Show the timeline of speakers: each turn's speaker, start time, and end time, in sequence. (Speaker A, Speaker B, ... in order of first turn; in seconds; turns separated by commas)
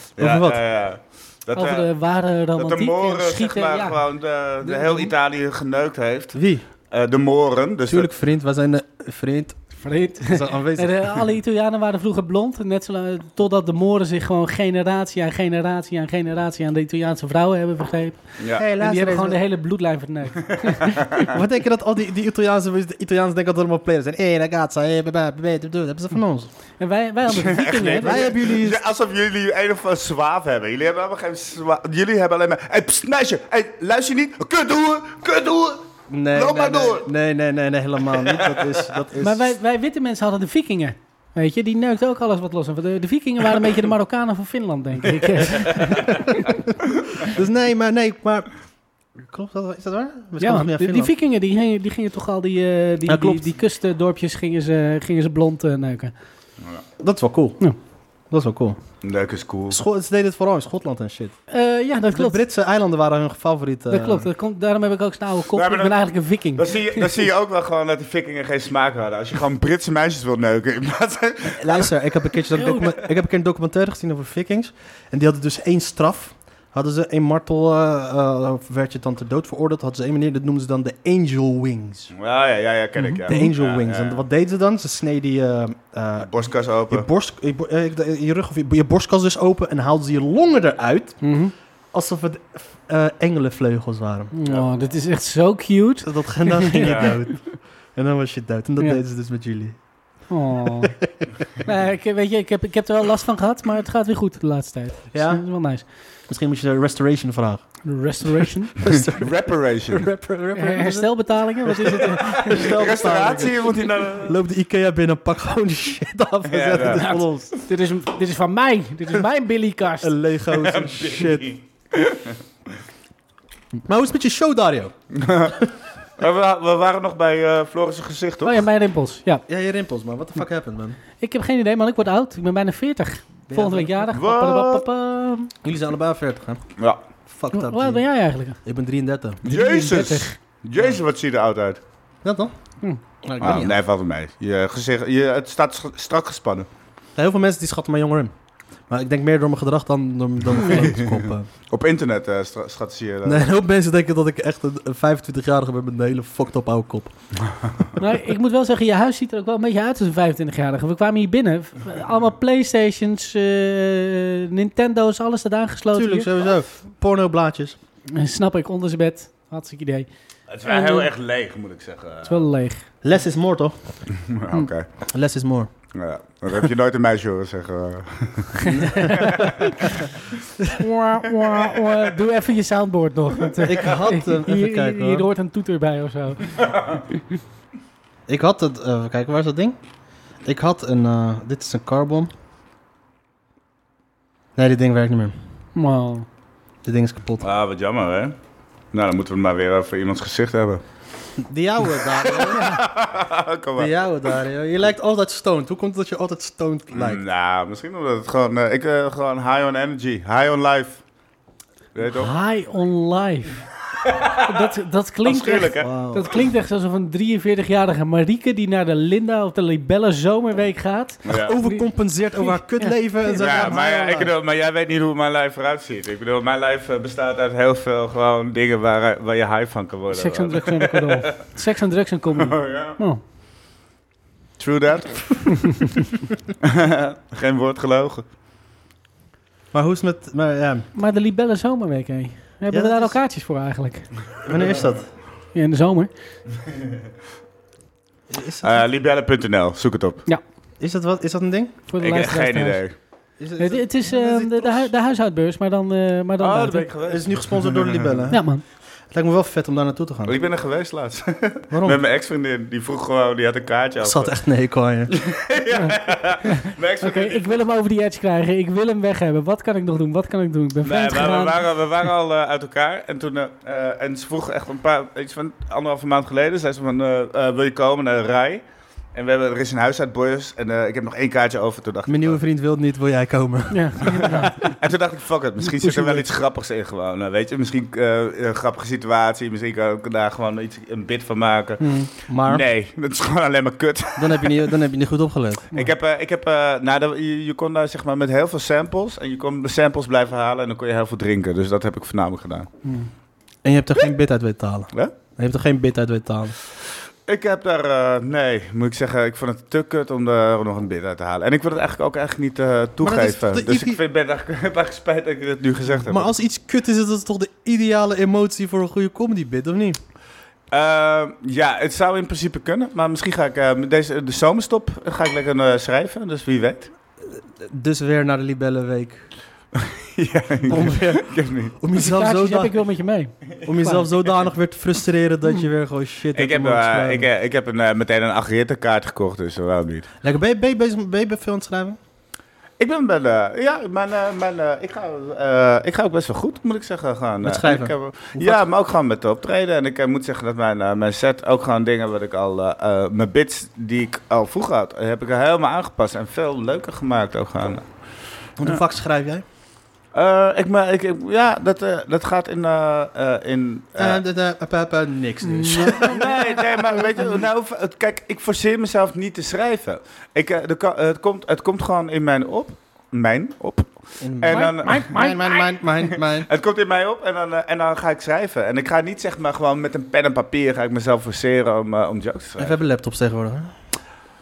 Speaker A: 0.2-1.9, Speaker B: 0.2-0.6, Speaker C: 1.6-4.0, Speaker A: 2.6-6.4, Speaker C: 4.6-5.1, Speaker B: 6.3-6.6, Speaker A: 6.9-8.1, Speaker B: 7.9-9.6, Speaker C: 9.8-21.3, Speaker B: 10.2-11.3, Speaker A: 18.4-18.7, Speaker B: 18.6-19.4, Speaker B: 21.3-26.5, Speaker C: 26.8-28.3, Speaker A: 27.3-37.1, Speaker B: 28.0-28.8, Speaker B: 36.1-39.5, Speaker A: 38.2-38.8, Speaker C: 39.2-46.6, Speaker A: 45.4-45.9, Speaker B: 47.2-48.5, Speaker B: 49.2-51.1, Speaker C: 50.4-56.1, Speaker B: 53.1-53.5, Speaker B: 57.0-57.6, Speaker B: 58.3-58.8, Speaker A: 59.0-59.8, Speaker B: 59.7-61.4, Speaker C: 61.5-62.4, Speaker B: 62.1-64.3, Speaker C: 63.9-67.3, Speaker A: 65.5-71.9, Speaker B: 71.6-82.1, Speaker C: 72.5-72.9, Speaker A: 82.1-84.2, Speaker C: 83.0-83.4, Speaker B: 83.3-86.3, Speaker A: 86.2-87.1, Speaker B: 86.9-91.2, Speaker C: 91.2-91.5, Speaker B: 91.9-94.3, Speaker C: 94.3-97.3, Speaker B: 96.0-99.8, Speaker A: 96.8-97.2, Speaker C: 100.3-101.0, Speaker B: 100.8-101.4, Speaker C: 101.6-105.9, Speaker B: 105.1-105.4, Speaker B: 106.3-107.7, Speaker C: 107.8-108.8, Speaker B: 108.2-109.4, Speaker A: 108.8-110.1, Speaker B: 109.9-117.5, Speaker C: 110.5-112.7, Speaker A: 112.5-114.3, Speaker A: 116.5-117.1, Speaker C: 116.8-120.1, Speaker B: 120.0-121.5, Speaker A: 120.5-122.4, Speaker B: 123.8-124.9, Speaker A: 125.2-125.6, Speaker A: 126.2-128.6, Speaker C: 128.4-129.4, Speaker B: 129.5-131.0, Speaker C: 131.2-135.5, Speaker B: 133.5-133.9, Speaker A: 134.1-134.8, Speaker B: 135.6-136.6, Speaker B: 137.3-138.0, Speaker C: 137.5-138.6, Speaker B: 138.6-139.4, Speaker C: 139.4-140.4, Speaker A: 139.4-141.8, Speaker B: 142.2-142.5, Speaker B: 143.2-143.8, Speaker A: 143.4-146.7, Speaker B: 147.2-148.3, Speaker B: 148.9-151.5, Speaker A: 150.7-151.2, Speaker A: 151.7-153.5, Speaker B: 153.2-157.1, Speaker C: 158.0-166.3, Speaker B: 165.9-167.8, Speaker C: 168.1-170.1, Speaker A: 170.5-172.4, Speaker C: 170.7-171.1, Speaker C: 172.2-172.9, Speaker B: 173.0-173.8, Speaker A: 174.2-174.9, Speaker B: 175.1-175.7, Speaker A: 175.9-179.7, Speaker C: 178.7-179.9, Speaker B: 178.7-179.5, Speaker C: 180.8-187.2, Speaker A: 181.4-181.8, Speaker B: 183.6-185.3, Speaker B: 188.3-189.8, Speaker B: 190.4-192.3, Speaker B: 194.6-195.3, Speaker C: 195.8-196.3, Speaker B: 196.8-197.5, Speaker A: 197.4-198.4, Speaker A: 198.9-200.8, Speaker B: 201.4-202.6, Speaker A: 202.1-203.9, Speaker C: 202.5-202.8, Speaker B: 203.8-207.2, Speaker A: 206.9-211.0, Speaker A: 211.9-212.3, Speaker C: 212.1-213.6, Speaker A: 214.0-214.5, Speaker C: 214.4-223.4, Speaker A: 215.2-215.9, Speaker B: 215.8-216.3, Speaker A: 221.3-221.5, Speaker B: 221.3-224.3, Speaker A: 223.4-231.3, Speaker C: 230.1-233.2, Speaker A: 232.4-233.0, Speaker A: 234.6-235.7, Speaker A: 236.6-238.3, Speaker B: 239.7-240.9, Speaker C: 240.9-244.1, Speaker B: 242.7-243.2, Speaker B: 244.4-245.1, Speaker C: 245.5-246.1, Speaker B: 248.3-248.8, Speaker A: 248.6-250.2, Speaker B: 250.8-251.8, Speaker C: 251.9-252.8, Speaker A: 252.0-252.9, Speaker B: 253.4-254.9, Speaker C: 253.6-256.9, Speaker A: 256.4-258.2, Speaker B: 257.1-258.4, Speaker C: 258.3-258.6, Speaker B: 259.1-260.4, Speaker A: 260.3-264.3, Speaker B: 261.7-262.0, Speaker B: 264.0-265.1, Speaker A: 265.1-267.6, Speaker C: 265.7-271.7, Speaker A: 270.8-282.4, Speaker B: 282.1-284.4, Speaker C: 283.7-284.6, Speaker A: 284.1-294.7, Speaker C: 285.8-286.2, Speaker B: 291.8-292.7, Speaker B: 294.2-295.7, Speaker A: 295.7-302.7, Speaker C: 302.9-303.1, Speaker B: 303.6-306.6, Speaker A: 307.3-316.3, Speaker B: 313.0-314.0, Speaker B: 316.0-320.0, Speaker A: 320.7-326.9, Speaker B: 327.6-329.3, Speaker A: 329.8-331.8, Speaker B: 330.7-332.8, Speaker C: 331.9-334.1, Speaker B: 333.6-337.3, Speaker A: 336.4-340.1, Speaker B: 340.2-342.0, Speaker A: 342.8-357.9, Speaker B: 347.4-348.6, Speaker B: 358.6-359.4, Speaker A: 360.1-364.2, Speaker B: 364.0-366.3, Speaker C: 365.4-366.4, Speaker A: 366.0-375.5, Speaker B: 374.2-376.5, Speaker C: 374.5-375.6, Speaker A: 376.1-382.8, Speaker B: 382.6-383.7